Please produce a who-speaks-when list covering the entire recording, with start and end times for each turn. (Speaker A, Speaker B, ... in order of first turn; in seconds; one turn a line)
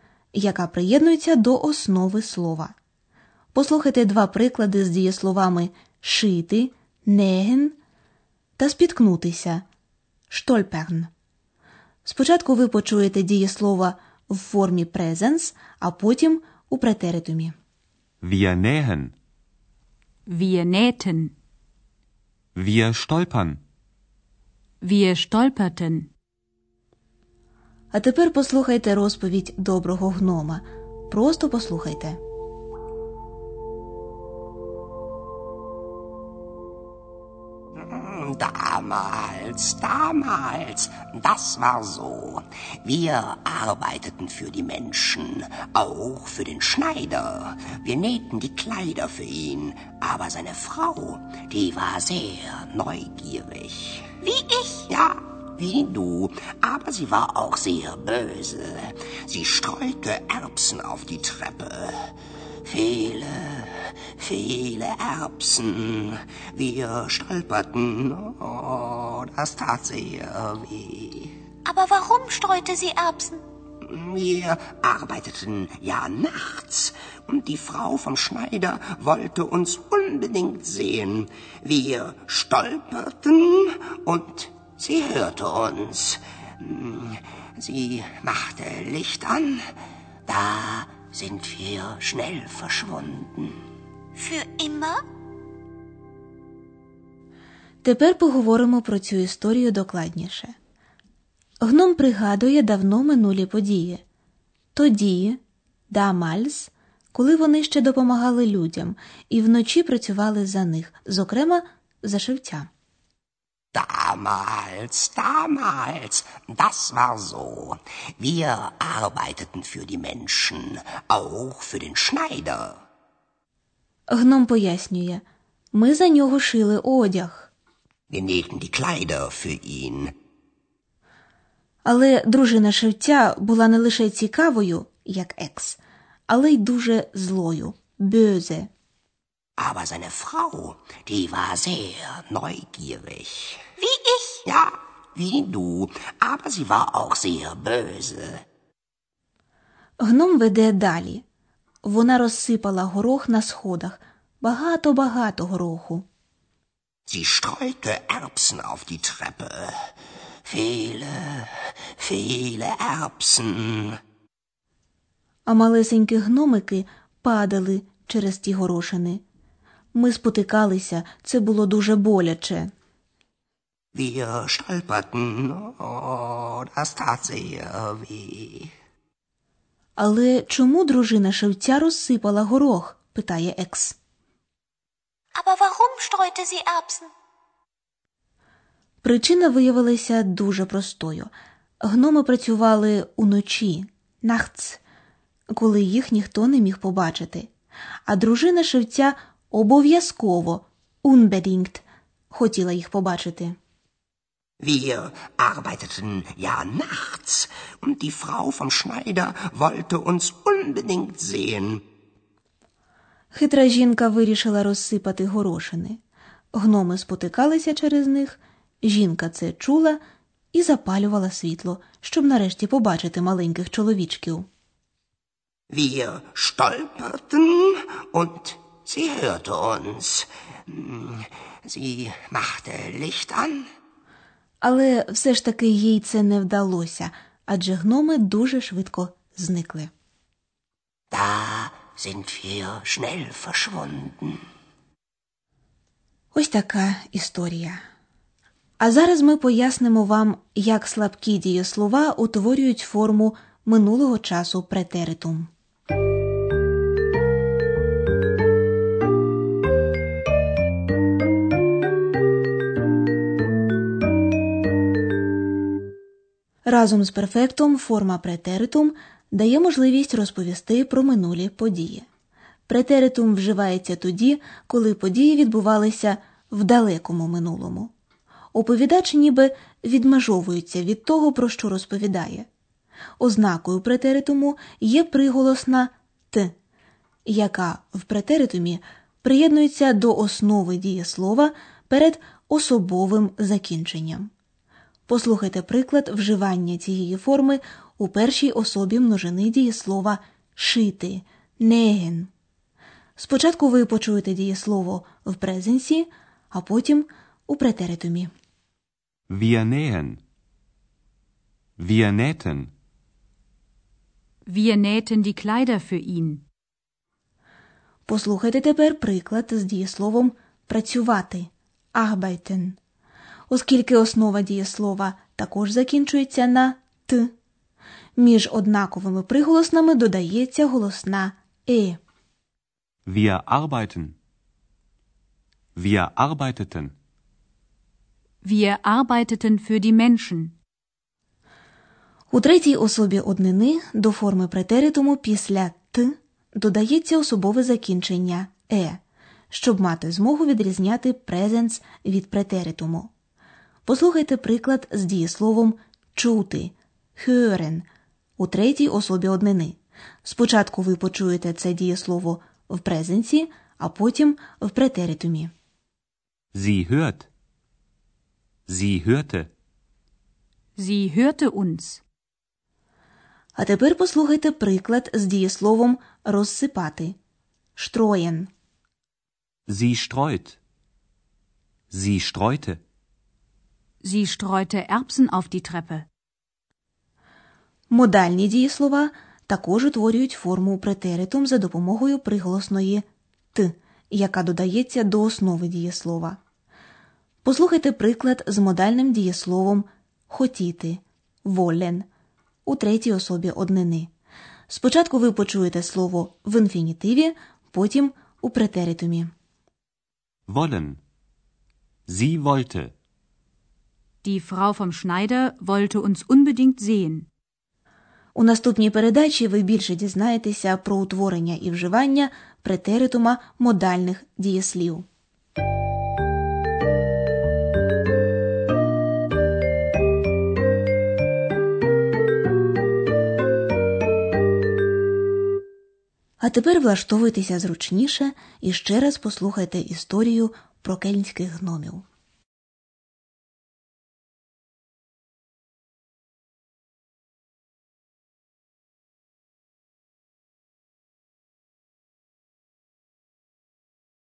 Speaker A: 0.3-2.7
Speaker A: 3.5-7.8
Speaker A: 8.6-9.6
Speaker A: 10.3-11.1
Speaker A: 12.0-17.5
Speaker B: 18.2-19.1
Speaker C: 20.3-21.3
Speaker B: 22.6-23.6
Speaker C: 24.8-26.1
Speaker A: 27.9-32.2
Speaker D: 37.8-54.1
Speaker E: 54.2-54.9
Speaker D: 54.9-62.1
Speaker D: 62.6-71.3
Speaker E: 71.6-73.4
Speaker D: 73.8-89.6
Speaker D: 90.3-93.6
Speaker E: 94.2-95.0
Speaker A: 97.8-100.5
Speaker A: 101.6-104.0
Speaker A: 104.7-112.7
Speaker D: 113.7-122.8
Speaker A: 124.1-127.5
Speaker D: 128.1-130.1
Speaker A: 131.8-138.7
Speaker D: 139.6-143.6
Speaker E: 143.8-144.4
Speaker D: 144.4-148.4
Speaker A: 150.0-151.2
Speaker A: 151.8-156.1
Speaker D: 157.1-159.7
Speaker D: 160.4-163.9
Speaker A: 165.5-169.2
Speaker A: 169.9-172.7
Speaker D: 173.9-178.7
Speaker A: 180.0-183.9
Speaker E: 185.3-187.1
Speaker A: 189.0-191.3
Speaker A: 191.8-194.8
Speaker A: 195.5-197.5
Speaker A: 198.1-203.6
Speaker D: 204.6-211.8
Speaker A: 213.3-216.0
Speaker A: 216.5-220.0
Speaker A: 220.5-224.5
Speaker D: 225.7-233.6
Speaker A: 234.6-239.9
Speaker D: 241.1-244.4
Speaker A: 246.3-247.8
Speaker A: 248.8-255.5
Speaker A: 266.6-272.1
Speaker A: 272.7-277.9
Speaker A: 278.5-282.5
Speaker A: 283.2-286.5
Speaker A: 287.2-294.3
Speaker A: 295.1-302.3
Speaker A: 303.2-308.3
Speaker B: 309.3-310.2
Speaker B: 311.8-312.7
Speaker C: 314.4-316.4
Speaker A: 318.1-322.8
Speaker A: 323.5-327.3
Speaker A: 328.2-332.0
Speaker B: 333.1-334.2
Speaker B: 335.8-336.9
Speaker C: 338.4-340.6
Speaker A: 342.3-353.1
Speaker A: 353.9-357.9
Speaker A: 358.4-365.5
Speaker B: 366.5-367.3
Speaker B: 368.7-369.5
Speaker C: 370.8-372.0
Speaker A: 373.6-377.1
Speaker A: 377.8-378.5
Speaker B: 379.7-380.6
Speaker B: 381.9-382.8
Speaker C: 384.0-386.1
Speaker A: 387.9-396.4
Speaker A: 397.4-402.1
Speaker A: 402.6-404.1
Speaker A: 404.7-409.3
Speaker B: 410.5-411.0
Speaker B: 412.1-412.9
Speaker C: 414.2-417.3
Speaker A: 418.3-425.1
Speaker A: 436.4-442.0